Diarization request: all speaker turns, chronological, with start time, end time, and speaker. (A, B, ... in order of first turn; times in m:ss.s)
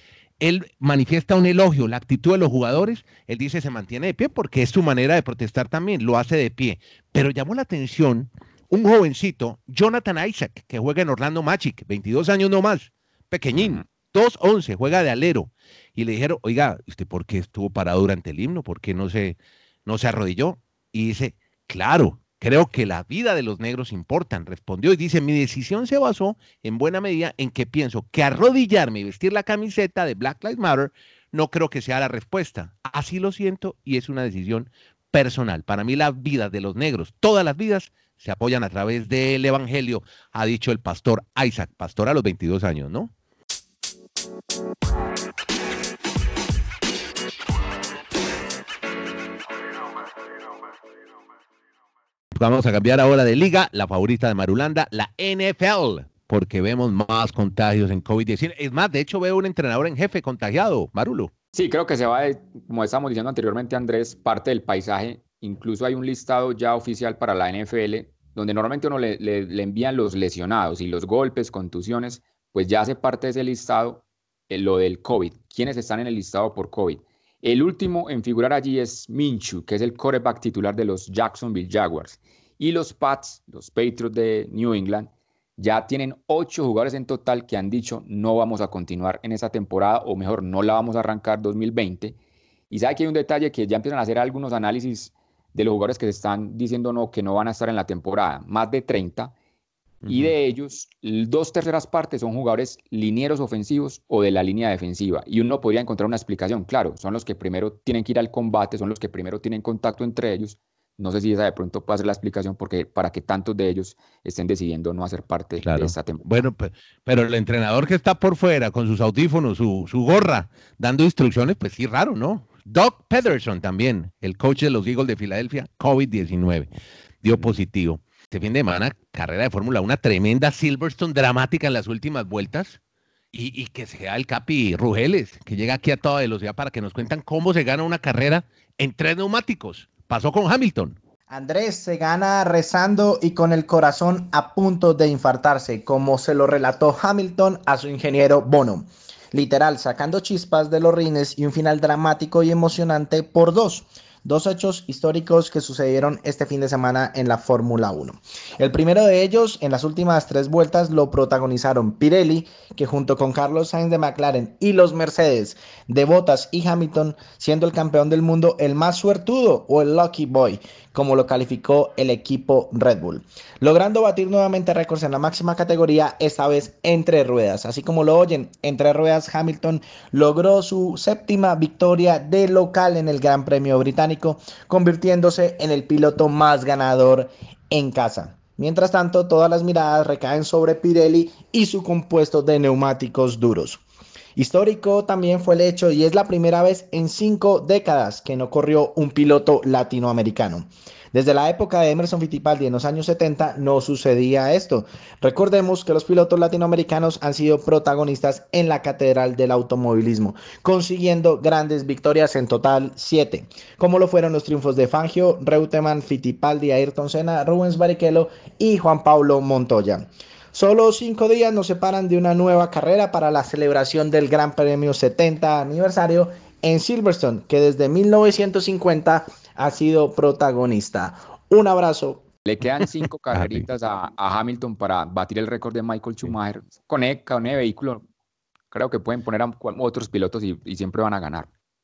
0:00.4-0:43.1 A
0:13.5-0:13.8 B
0:52.3-1:01.3 A
1:01.5-1:32.2 B
1:32.7-1:39.3 B
1:40.0-1:40.3 A
1:40.1-1:56.2 B
1:55.6-2:06.7 A
2:07.2-2:12.8 A
2:13.3-2:21.0 A
2:21.3-3:13.8 C
3:14.4-3:52.2 C
3:52.4-3:58.0 B
3:53.3-3:53.6 A
3:58.7-4:01.5 B